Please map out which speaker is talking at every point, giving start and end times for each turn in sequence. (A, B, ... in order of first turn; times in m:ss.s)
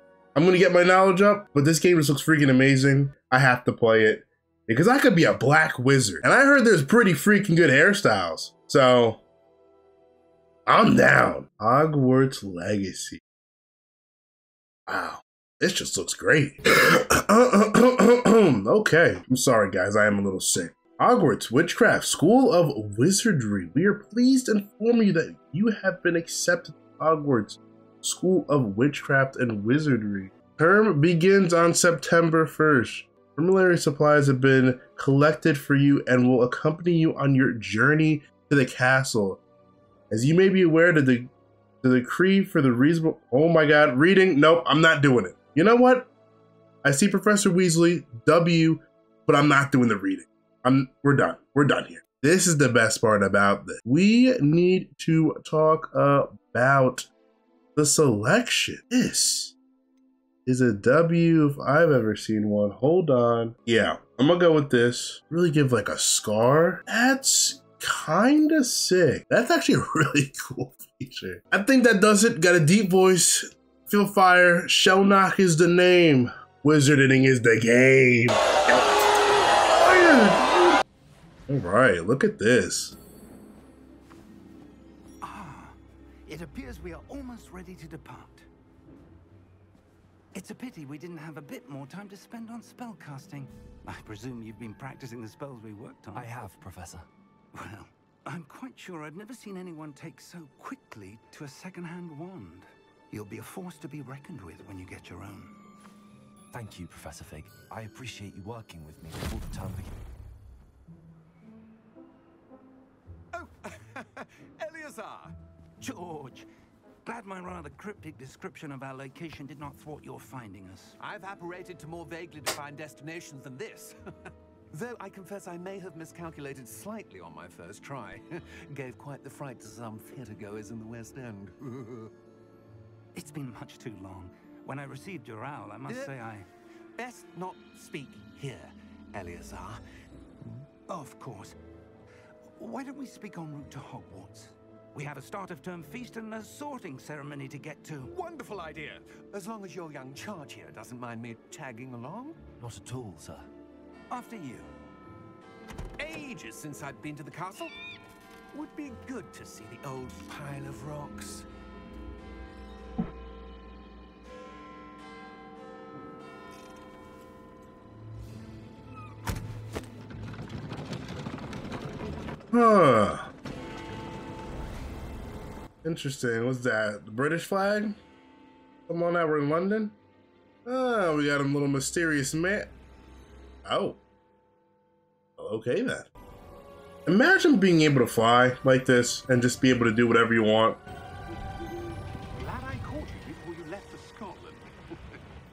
0:00.4-0:09.2 A
0:10.7-0:13.2 A
0:14.9-0:39.4 A
0:40.1-0:41.3 A
0:41.8-0:46.1 A
0:46.8-0:57.1 A
0:57.8-0:59.6 A
1:00.5-1:20.8 A
1:21.5-1:23.0 A
1:25.2-1:28.5 B
1:30.3-1:36.4 B
1:36.1-1:37.1 C
1:37.5-1:45.6 B
1:46.5-1:50.0 C
1:53.3-1:55.4 D
1:55.8-1:56.5 B
1:57.0-2:01.0 B
2:01.0-2:04.0 D
2:04.7-2:12.1 D
2:13.1-2:16.5 B
2:15.9-2:16.1 D
2:17.0-2:19.8 D
2:20.9-2:21.6 B
2:22.6-2:28.1 B
2:28.1-2:32.4 D
2:32.6-2:33.5 C
2:34.1-2:34.7 B
2:36.0-2:37.7 D
2:38.5-2:41.5 D
2:52.5-2:53.3 A
2:55.8-2:58.0 A
2:58.9-3:00.0 A
3:00.7-3:02.7 A
3:03.6-3:04.0 A
3:05.4-3:06.1 A
3:07.1-3:10.8 A
3:11.6-3:15.2 D